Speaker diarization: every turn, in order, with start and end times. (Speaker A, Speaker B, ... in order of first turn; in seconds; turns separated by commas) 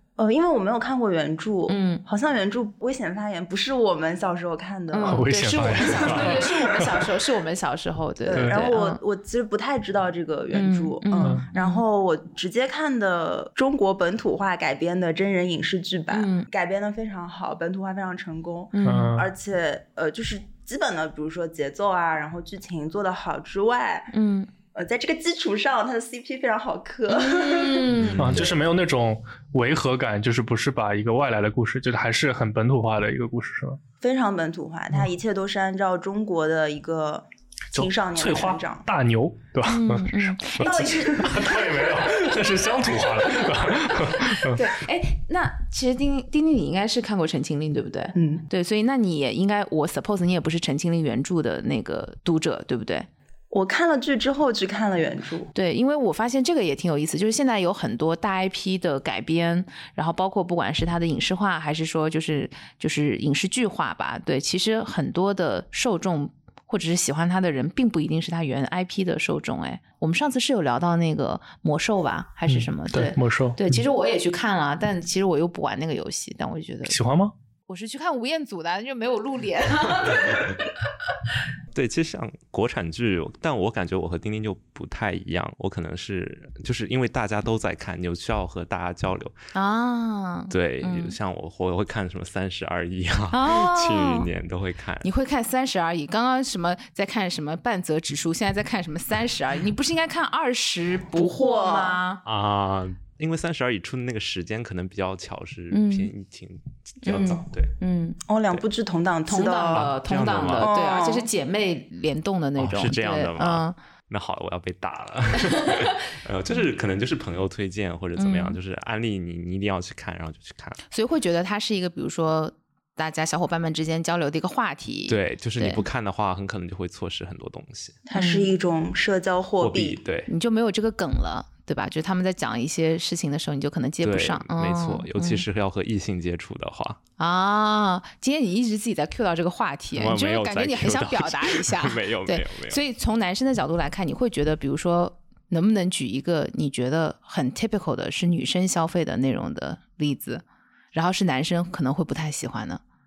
Speaker A: 0.2-6.8, Speaker B: 1.7-2.0, Speaker B: 4.9-9.0, Speaker C: 5.0-7.0, Speaker A: 8.2-24.1, Speaker C: 8.3-8.7, Speaker B: 10.5-11.8, Speaker C: 11.2-11.5, Speaker B: 16.1-16.5, Speaker B: 18.7-19.2, Speaker C: 18.9-19.3, Speaker B: 24.1-24.5, Speaker A: 24.7-28.0, Speaker B: 27.1-28.4, Speaker D: 28.0-28.5, Speaker C: 28.1-33.8, Speaker A: 34.0-38.9, Speaker C: 37.7-44.7, Speaker B: 39.7-41.4, Speaker A: 40.6-42.3, Speaker B: 43.3-53.1, Speaker A: 48.1-48.5, Speaker A: 53.5-55.5, Speaker B: 55.5-77.0, Speaker C: 72.5-73.8, Speaker C: 76.8-77.3, Speaker B: 77.7-80.7, Speaker D: 81.7-89.3, Speaker B: 89.5-91.2, Speaker D: 90.5-95.1, Speaker B: 93.3-94.3, Speaker B: 95.0-102.2, Speaker A: 101.2-102.0, Speaker D: 102.2-107.7, Speaker B: 105.7-106.1, Speaker B: 107.0-108.2, Speaker A: 108.3-109.9, Speaker B: 109.3-113.8, Speaker D: 109.7-110.7, Speaker A: 110.6-111.3, Speaker D: 112.6-120.8, Speaker B: 115.5-115.9, Speaker B: 118.2-118.6, Speaker B: 120.9-125.8, Speaker D: 125.1-128.0, Speaker A: 128.1-130.0, Speaker B: 128.1-128.5, Speaker D: 129.6-130.3, Speaker B: 130.3-135.4, Speaker D: 134.0-137.0, Speaker B: 137.2-152.8, Speaker D: 139.9-142.8